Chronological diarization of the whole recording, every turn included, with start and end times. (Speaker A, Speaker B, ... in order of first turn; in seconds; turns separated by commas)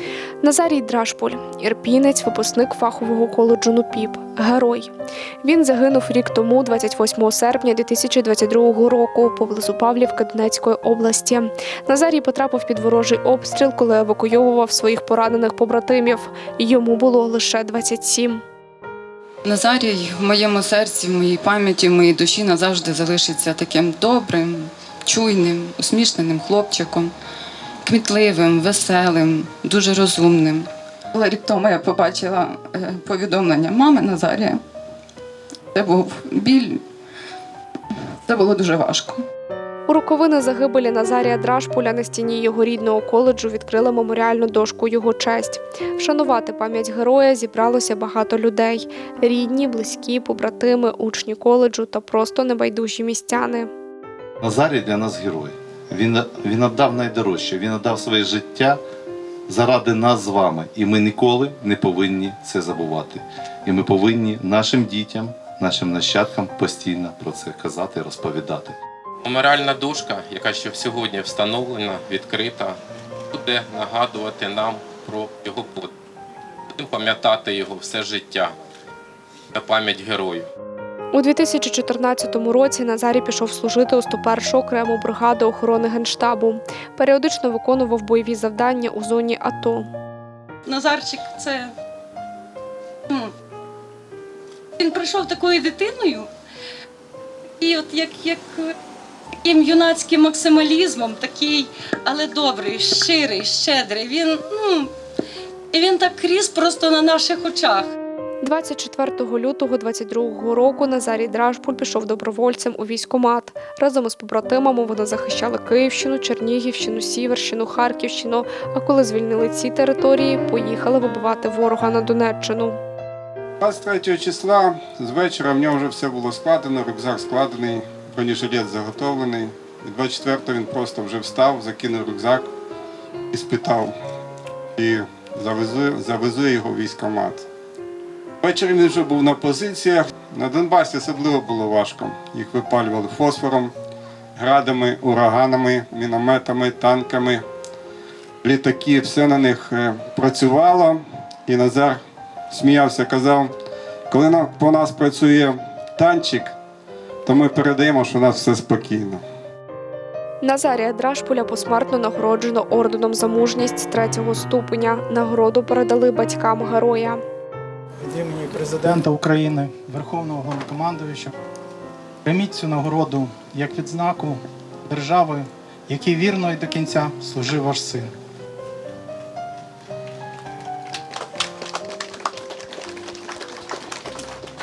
Speaker A: 0.4-4.9, Speaker A: 5.4-18.4, Speaker B: 19.4-27.1, Speaker B: 27.8-34.6, Speaker B: 35.7-36.8, Speaker B: 38.2-39.2, Speaker A: 39.9-53.7, Speaker C: 54.4-58.8, Speaker C: 59.5-68.8, Speaker D: 69.2-72.8, Speaker D: 73.3-75.9, Speaker D: 76.8-78.5, Speaker D: 79.5-80.5, Speaker A: 81.1-89.9, Speaker E: 90.7-91.7, Speaker E: 94.8-96.3, Speaker E: 97.6-98.5, Speaker E: 99.4-104.9, Speaker E: 105.7-107.9, Speaker A: 108.4-122.8, Speaker F: 123.6-132.5, Speaker F: 133.3-133.9, Speaker F: 134.8-137.4, Speaker F: 138.4-143.7, Speaker F: 144.3-147.4, Speaker F: 148.4-153.5, Speaker F: 154.1-156.5, Speaker F: 157.2-159.2, Speaker A: 160.4-167.2, Speaker G: 168.0-171.3, Speaker G: 172.2-178.1